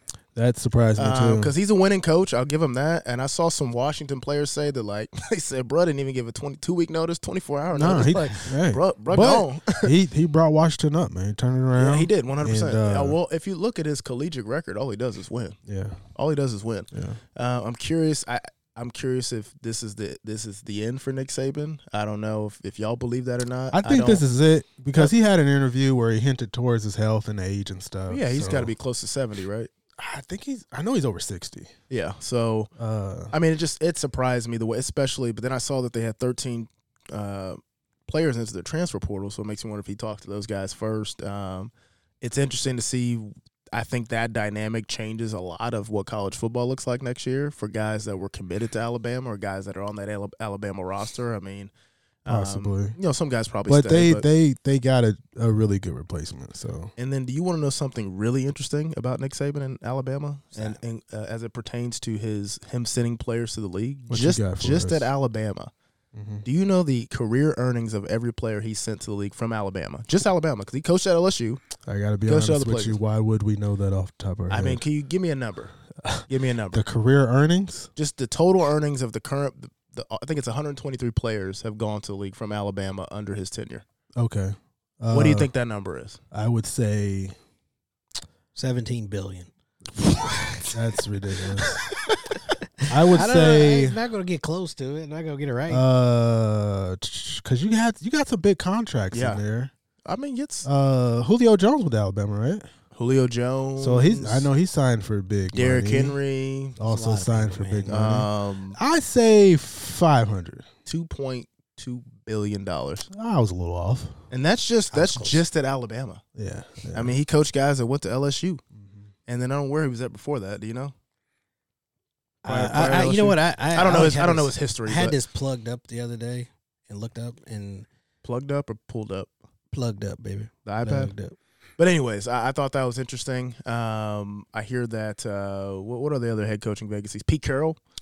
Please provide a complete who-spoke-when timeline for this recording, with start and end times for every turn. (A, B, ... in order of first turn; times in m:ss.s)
0:00.4-0:01.5 A
0:01.0-0:09.9 B
0:07.7-0:13.2 A
0:11.8-0:15.6 B
0:15.7-0:16.0 A
0:16.2-0:24.2 B
0:16.9-0:17.2 A
0:23.7-0:28.7 A
0:28.1-0:29.7 B
0:30.0-0:31.7 A
0:31.9-0:32.7 B
0:32.8-0:33.3 A
0:33.3-0:51.7 B
0:52.2-0:54.3 B
0:52.3-0:53.0 A
0:53.7-0:56.9 A
0:57.0-1:05.7 B
1:04.1-1:05.1 A
1:06.1-1:06.4 A
1:06.4-1:11.6 B
1:11.8-1:14.8 A
1:12.3-1:13.0 B
1:14.5-1:15.8 B
1:16.0-1:17.9 A
1:16.3-1:16.8 B
1:18.0-1:23.8 B
1:24.2-1:25.5 A
1:25.1-1:26.2 B
1:26.3-1:27.4 A
1:28.6-1:29.5 C
1:30.0-1:31.8 A
1:32.8-1:35.8 C
1:32.9-1:34.0 A
1:35.7-1:39.7 A
1:39.1-1:39.4 B
1:40.0-1:40.7 B
1:40.6-1:42.7 A
1:43.0-1:44.5 B
1:43.8-1:46.2 A
1:45.5-1:46.8 B
1:46.8-1:50.7 A
1:46.8-1:48.0 C
1:47.9-1:48.8 B
1:50.9-1:53.1 B
1:53.1-1:54.2 A
1:54.3-1:56.2 B
1:54.9-1:55.4 C
1:56.4-1:57.2 A
1:56.9-1:58.6 B
1:58.8-1:59.0 A
1:59.3-2:00.9 B
2:02.4-2:07.9 C
2:02.5-2:05.2 B
2:08.2-2:09.3 B
2:09.7-2:11.4 C
2:10.7-2:11.1 B
2:11.8-2:17.8 B